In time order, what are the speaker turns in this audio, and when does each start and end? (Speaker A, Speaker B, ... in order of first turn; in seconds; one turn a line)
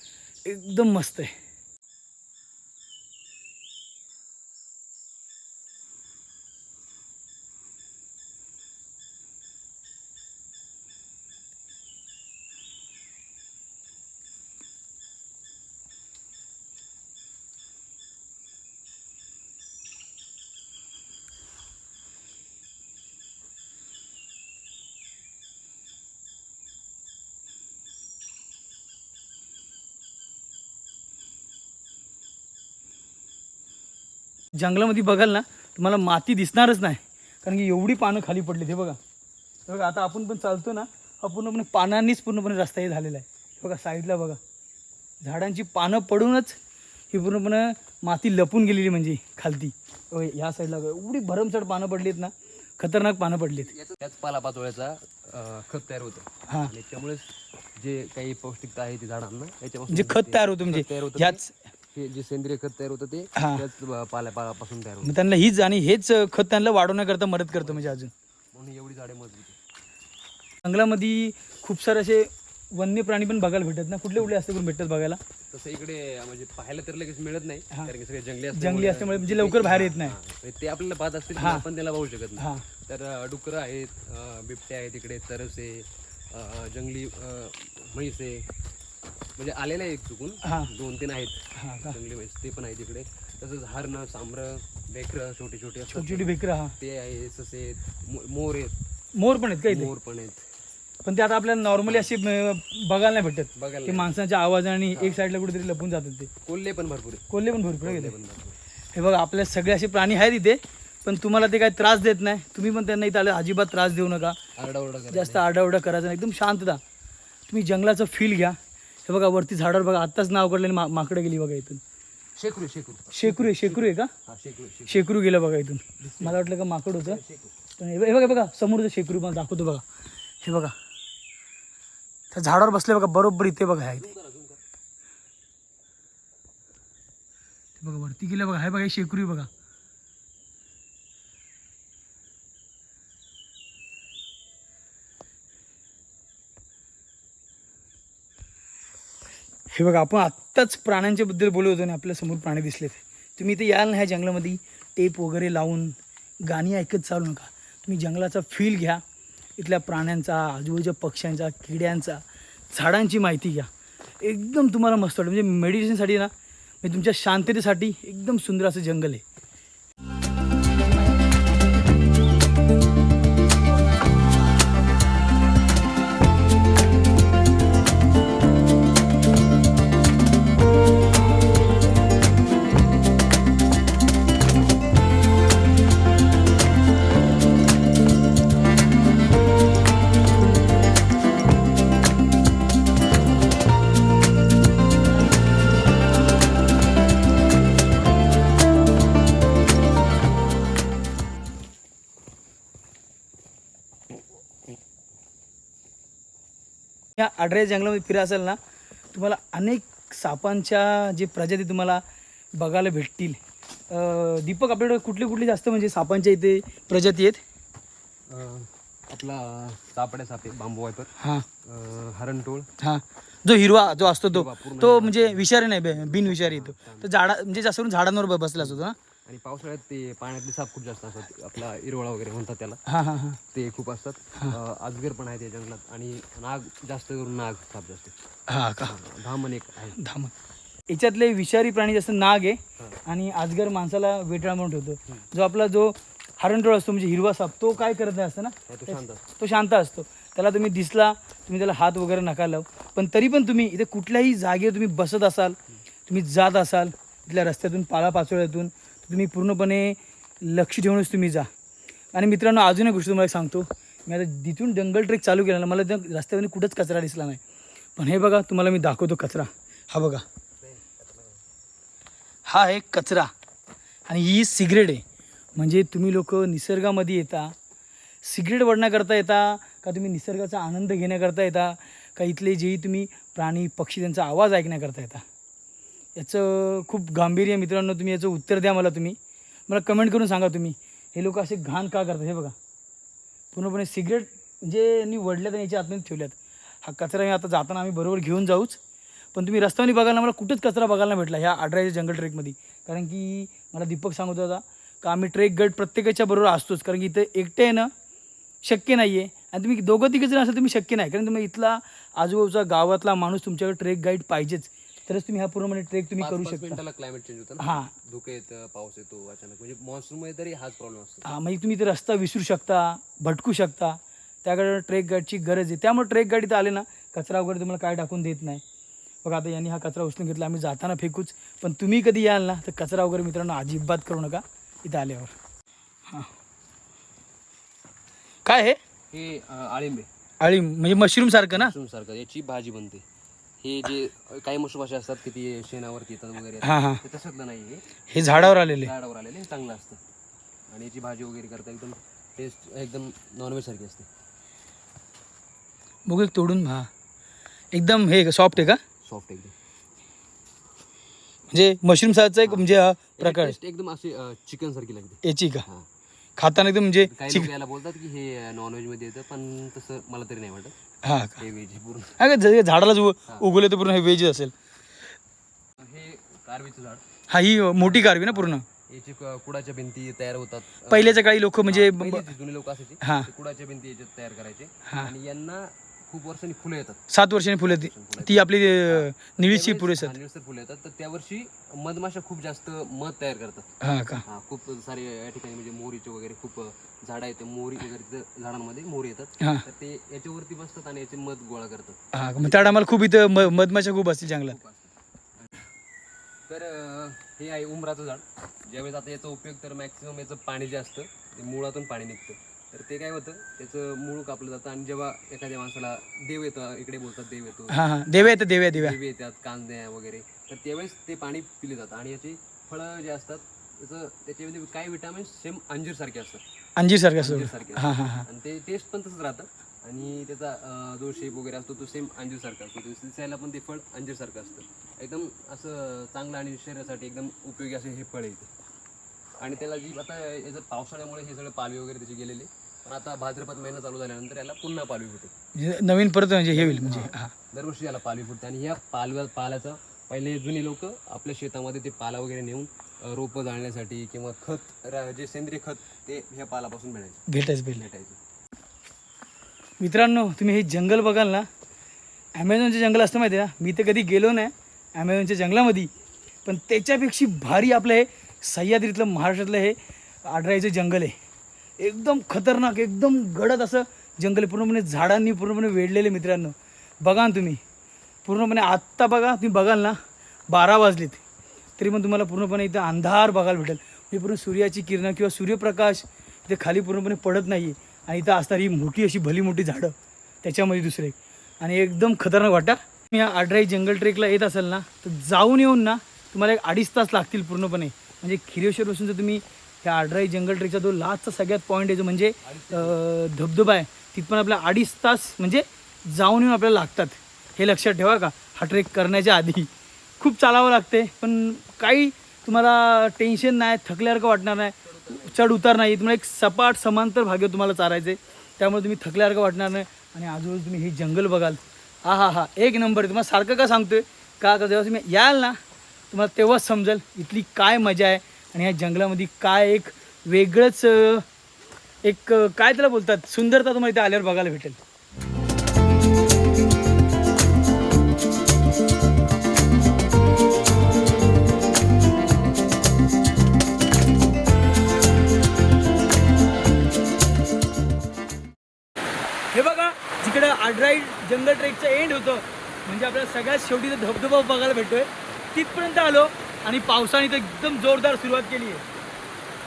Speaker A: 0.4-1.3
Speaker A: 34.6-39.0
Speaker A: 39.7-44.4
Speaker A: 45.2-46.6
Speaker A: 47.1-53.7
Speaker B: 53.7-61.4
Speaker A: 59.9-61.5
Speaker B: 61.9-65.2
Speaker A: 63.4-63.6
Speaker A: 65.0-68.1
Speaker B: 67.5-68.0
Speaker B: 68.5-69.6
Speaker A: 70.6-75.2
Speaker B: 75.5-88.5
Speaker A: 78.5-80.1
Speaker A: 81.3-81.6
Speaker A: 82.4-82.6
Speaker B: 89.4-98.7
Speaker A: 90.4-90.7
Speaker A: 91.6-92.0
Speaker A: 95.9-96.7
Speaker A: 99.1-99.9
Speaker B: 99.7-100.4
Speaker A: 101.0-106.3
Speaker B: 101.8-102.1
Speaker B: 103.5-104.1
Speaker B: 104.9-105.2
Speaker B: 106.4-107.2
Speaker A: 107.3-108.2
Speaker B: 107.8-108.6
Speaker A: 108.9-114.4
Speaker B: 114.6-115.5
Speaker A: 115.1-116.8
Speaker A: 117.5-121.8
Speaker B: 122.4-125.1
Speaker A: 123.1-124.1
Speaker A: 124.9-127.2
Speaker B: 126.0-126.4
Speaker B: 127.0-127.5
Speaker A: 127.8-129.8
Speaker A: 130.4-130.7
Speaker A: 132.3-134.1
Speaker B: 133.9-134.6
Speaker A: 137.8-139.5
Speaker A: 149.7-159.0
Speaker A: 159.6-162.2
Speaker A: 162.7-163.7
Speaker A: 164.2-166.3
Speaker A: 166.8-169.2
Speaker A: 170.8-171.3
Speaker A: 207.2-208.6
Speaker A: 209.1-212.0
Speaker A: 212.6-217.4
Speaker B: 218.3-221.1
Speaker A: 221.2-221.4
Speaker B: 221.6-222.7
Speaker A: 222.8-228.9
Speaker B: 224.0-227.2
Speaker B: 228.6-232.8
Speaker A: 232.9-233.4
Speaker B: 233.5-238.2
Speaker A: 238.5-239.0
Speaker B: 238.8-240.0
Speaker A: 240.0-240.3
Speaker A: 240.9-261.5
Speaker B: 248.7-249.2
Speaker A: 262.1-267.4
Speaker A: 268.0-270.2
Speaker B: 270.6-271.4
Speaker A: 272.4-273.3
Speaker A: 274.1-275.0
Speaker A: 275.6-277.5
Speaker A: 278.2-285.2
Speaker A: 286.1-292.6
Speaker A: 293.5-298.8
Speaker A: 299.3-307.9
Speaker A: 308.6-316.8
Speaker B: 316.2-321.3
Speaker A: 317.6-317.9
Speaker A: 321.2-328.6
Speaker A: 329.2-335.3
Speaker A: 338.4-338.8
Speaker B: 339.1-340.1
Speaker A: 340.4-341.7
Speaker B: 341.5-343.0
Speaker B: 343.6-350.0
Speaker A: 346.6-347.0
Speaker A: 348.1-348.9
Speaker B: 350.7-354.1
Speaker A: 356.1-356.9
Speaker A: 357.7-358.8
Speaker B: 359.0-359.5
Speaker A: 361.5-363.5
Speaker B: 362.4-365.9
Speaker A: 365.2-365.6
Speaker A: 366.4-367.5
Speaker B: 367.0-370.7
Speaker A: 371.0-371.4
Speaker B: 371.4-372.2
Speaker A: 372.2-374.5
Speaker B: 375.8-377.0
Speaker A: 377.3-378.6
Speaker B: 377.8-387.0
Speaker A: 380.9-382.2
Speaker A: 383.0-383.3
Speaker A: 384.9-385.1
Speaker A: 387.1-390.1
Speaker B: 387.6-393.7
Speaker A: 393.8-394.2
Speaker B: 394.2-402.8
Speaker A: 402.1-404.6
Speaker B: 404.4-405.5
Speaker B: 406.5-426.4
Speaker A: 417.7-419.0
Speaker A: 426.8-428.2
Speaker B: 427.2-438.5
Speaker B: 439.4-445.3
Speaker A: 445.5-447.3
Speaker B: 446.5-457.2
Speaker A: 457.3-457.9
Speaker B: 457.7-458.2
Speaker A: 459.8-461.5
Speaker A: 462.3-465.9
Speaker A: 466.4-471.1
Speaker A: 471.8-477.6
Speaker A: 478.2-480.0
Speaker A: 480.5-481.2
Speaker A: 481.8-525.6
Speaker B: 502.4-503.0
Speaker B: 514.8-515.5
Speaker A: 526.1-531.2
Speaker A: 532.0-534.8
Speaker A: 549.5-558.8